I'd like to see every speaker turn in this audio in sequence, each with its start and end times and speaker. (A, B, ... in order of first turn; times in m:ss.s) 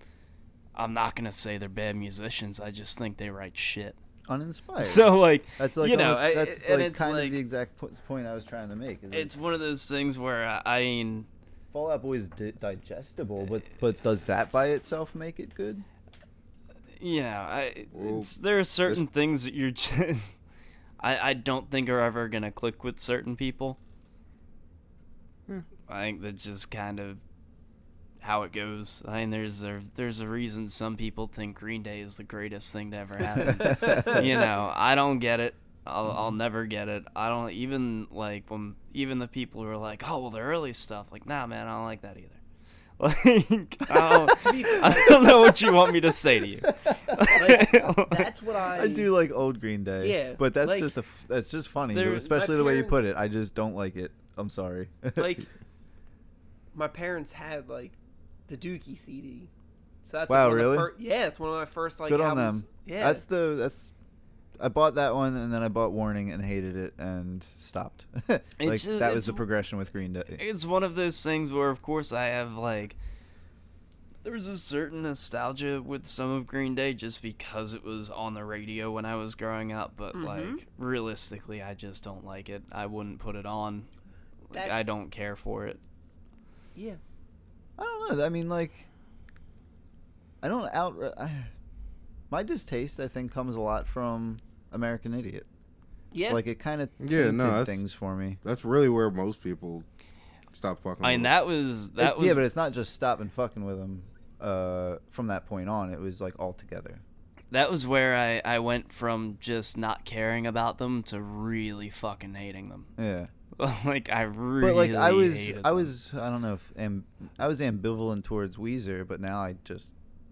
0:00.8-0:04.0 A
0:04.3-0:09.3 B
0:04.8-0:07.4 A
0:09.1-0:11.3 A
0:11.7-0:15.8 B
0:17.0-0:20.4 A
0:17.9-0:19.0 C
0:21.0-0:23.8 A
0:25.9-0:27.2 A
0:28.2-0:42.4 A
0:43.0-0:48.3 A
0:44.0-0:44.4 B
0:44.3-0:45.5 D
0:46.7-0:47.9 B
0:47.3-0:49.1 D
0:48.7-0:55.4 B
0:50.0-0:50.9 D
0:51.9-0:52.4 A
0:52.3-0:53.0 D
0:55.2-0:55.5 D
0:56.7-0:58.0 D
0:58.5-0:59.5 D
1:00.0-1:03.2 D
1:00.3-1:00.9 B
1:02.1-1:03.9 B
1:04.6-1:10.4 B
1:08.6-1:09.4 A
1:10.4-1:13.0 A
1:14.2-1:23.9 A
1:20.1-1:20.6 D
1:24.5-1:25.8 A
1:24.5-1:24.9 D
1:26.8-1:27.0 D
1:27.8-1:28.9 B
1:30.4-1:31.5 B
1:32.3-1:35.5 B
1:36.1-1:36.4 D
1:36.3-1:38.4 B
1:37.0-1:37.8 C
1:38.4-1:39.9 C
1:40.5-1:41.4 C
1:41.0-1:42.5 A
1:42.0-1:47.0 B
1:47.5-1:52.9 A
1:53.0-1:53.3 B
1:53.6-1:55.9 A
1:54.6-1:59.9 B